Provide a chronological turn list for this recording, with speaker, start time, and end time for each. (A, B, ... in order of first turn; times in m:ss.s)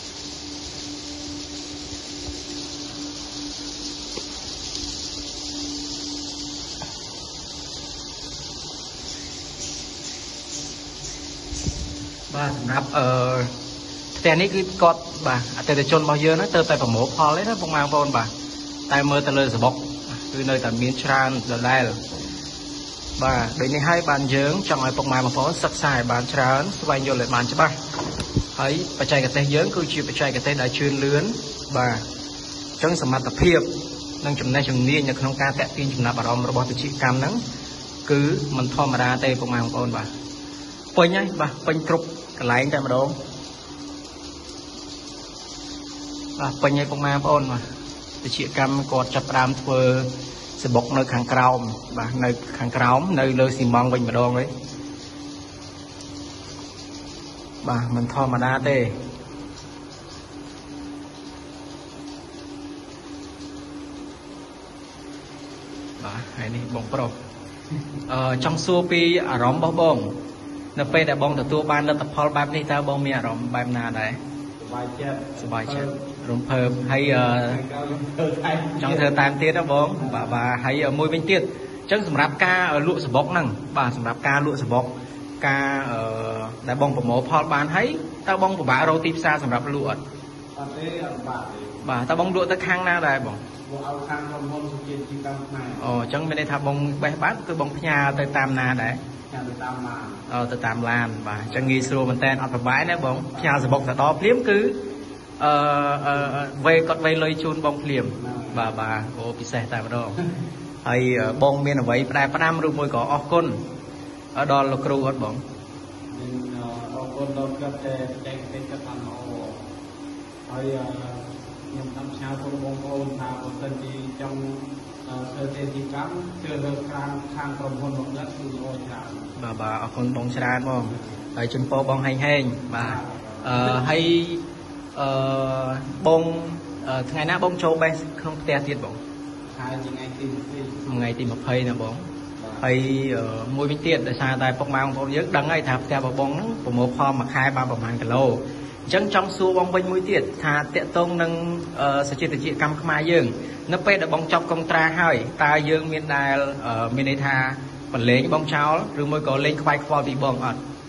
0:12.3-0:13.5 A
0:14.1-0:18.3 A
0:18.9-0:22.0 A
0:23.2-0:27.7 A
0:28.5-0:32.0 A
0:32.8-0:33.7 A
0:34.2-0:37.4 A
0:38.0-0:40.1 A
0:40.9-0:43.2 A
0:46.4-0:47.6 A
0:48.2-0:54.5 A
0:57.6-0:59.0 A
1:06.0-1:07.1 A
1:08.1-1:10.2 A
1:10.7-1:14.2 A
1:14.6-1:16.0 B
1:15.4-1:17.6 A
1:17.1-1:19.2 B
1:18.8-1:30.0 A
1:20.0-1:20.3 B
1:30.5-1:31.8 B
1:31.8-1:33.4 A
1:33.6-1:35.8 B
1:35.8-1:39.0 A
1:39.3-1:40.3 B
1:40.3-1:44.8 A
1:43.3-1:43.8 B
1:45.4-1:50.2 A
1:48.2-1:48.8 B
1:50.8-1:53.6 A
1:54.3-1:55.4 A
1:56.1-1:59.7 B
2:00.5-2:09.3 B
2:09.4-2:19.0 A
2:12.7-2:14.0 B
2:19.5-2:20.8 B
2:20.8-2:22.0 A
2:22.4-2:22.6 B
2:22.6-2:40.6 A